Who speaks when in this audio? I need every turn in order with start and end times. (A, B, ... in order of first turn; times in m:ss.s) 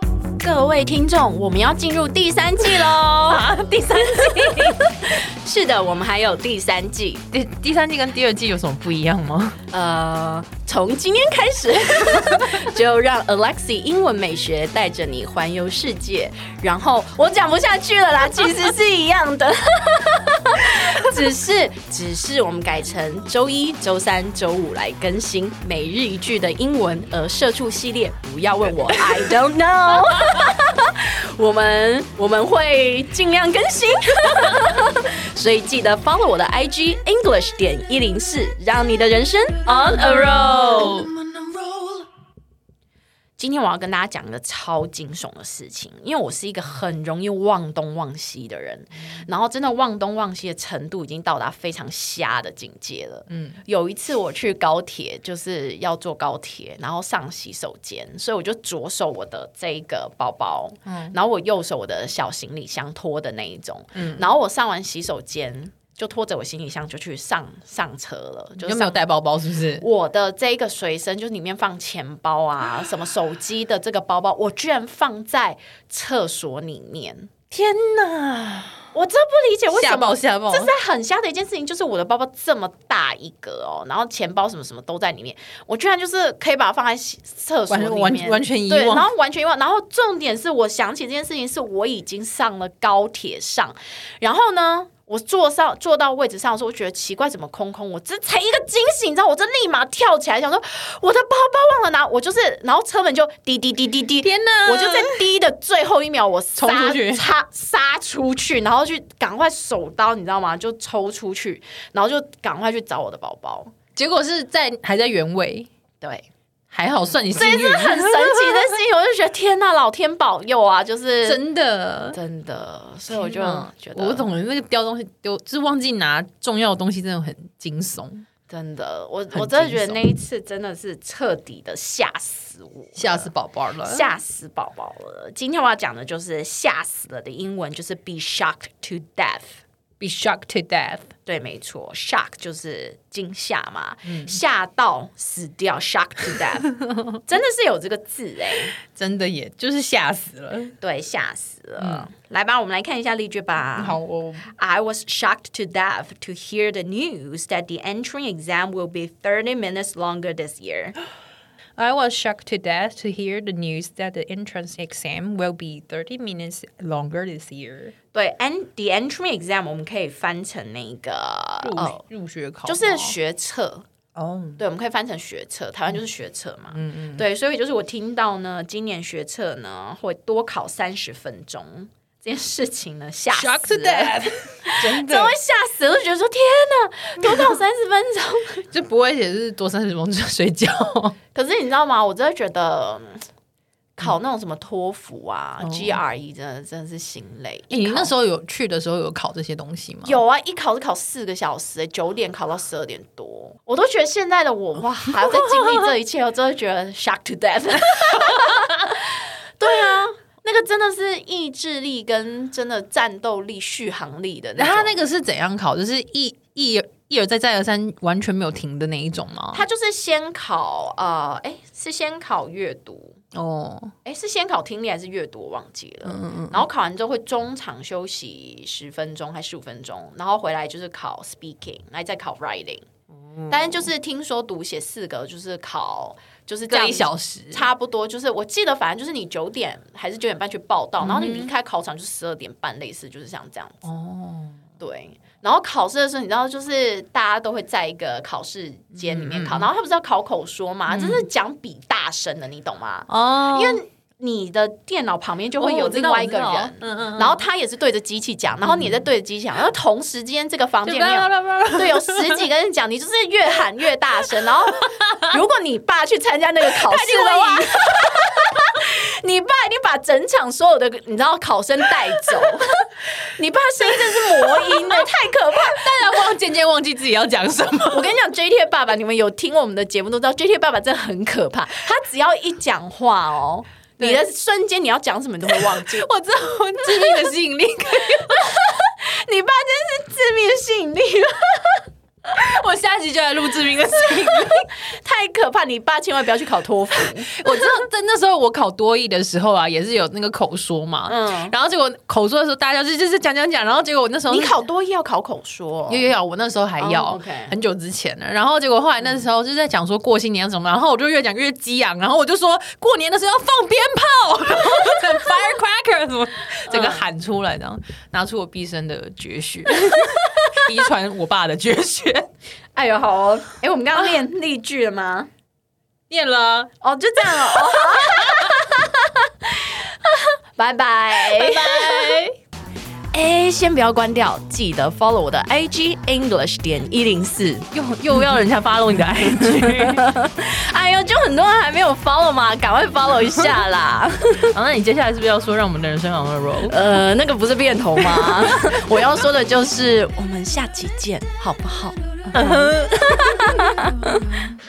0:00.4-0:07.2 A
0:03.3-0:05.0 B
0:07.3-0:09.6 B
0:09.7-0:41.0 A
0:39.6-0:41.1 B
0:43.4-1:09.1 A
0:53.3-0:53.6 B
1:00.8-1:01.1 B
1:03.9-1:04.3 B
1:08.6-1:09.8 B
1:09.8-1:17.3 A
1:17.5-1:18.8 B
1:18.9-1:53.7 A
1:19.7-1:20.7 B
1:27.7-1:29.1 B
1:44.2-1:45.2 B
1:46.6-1:47.3 B
1:54.0-1:55.7 B
1:56.0-1:56.2 A
1:56.7-1:58.7 B
1:57.3-2:01.4 A
2:01.2-2:02.2 B
2:02.1-2:04.3 A
2:03.1-2:08.2 B
2:08.5-2:13.3 A
2:09.3-2:10.0 B
2:12.9-2:14.1 B
2:13.8-2:19.6 A
2:20.0-2:21.1 B
2:21.2-2:28.7 A
2:24.0-2:24.4 B
2:28.9-2:30.7 B
2:30.8-2:41.0 A
2:31.8-2:32.1 B
2:33.8-2:34.5 B
2:41.8-2:47.9 B
2:48.1-2:52.0 A
2:51.6-2:53.1 B
2:52.6-2:53.8 A
2:54.1-2:54.6 B
2:54.6-3:08.7 A
2:56.7-2:57.2 B
3:03.3-3:05.3 B
3:07.2-3:07.4 B
3:08.7-3:11.2 B
3:11.3-3:13.3 A
3:14.0-3:18.1 A
3:15.6-3:16.0 B
3:17.7-3:20.2 B
3:20.0-3:35.0 A
3:25.2-3:25.9 B
3:34.6-3:39.6 B
3:39.5-3:43.2 A
3:43.3-3:43.9 B
3:44.0-3:52.8 A
3:46.0-3:46.6 B
3:53.4-3:53.7 B
3:53.5-4:03.8 A
3:56.7-3:57.6 B
4:01.0-4:01.5 B
4:03.8-4:04.6 B
4:04.8-4:36.2 A
4:08.9-4:09.7 B
4:10.9-4:11.2 B
4:13.1-4:13.8 B
4:15.6-4:17.4 B
4:20.8-4:22.5 B
4:24.7-4:25.3 B
4:26.8-4:28.2 B
4:34.6-4:35.0 B
4:35.6-4:38.1 B
4:37.9-4:46.1 A
4:45.5-4:48.5 B
4:46.9-4:47.3 A
4:48.1-4:51.9 A
4:52.3-4:54.7 B
4:54.3-4:57.4 A
4:57.0-5:04.5 B
5:01.1-5:01.5 A
5:04.3-5:06.1 A
5:05.9-5:22.3 B
5:06.8-5:07.5 A
5:16.7-5:17.0 A
5:22.7-5:25.3 A
5:26.1-5:26.7 B
5:26.8-5:32.2 A
5:27.3-5:28.6 B
5:31.1-5:32.4 B
5:33.1-5:44.5 A
5:37.7-5:40.0 B
5:44.5-5:46.8 B
5:46.7-5:54.2 A
5:48.0-5:48.5 B
5:52.3-5:54.4 B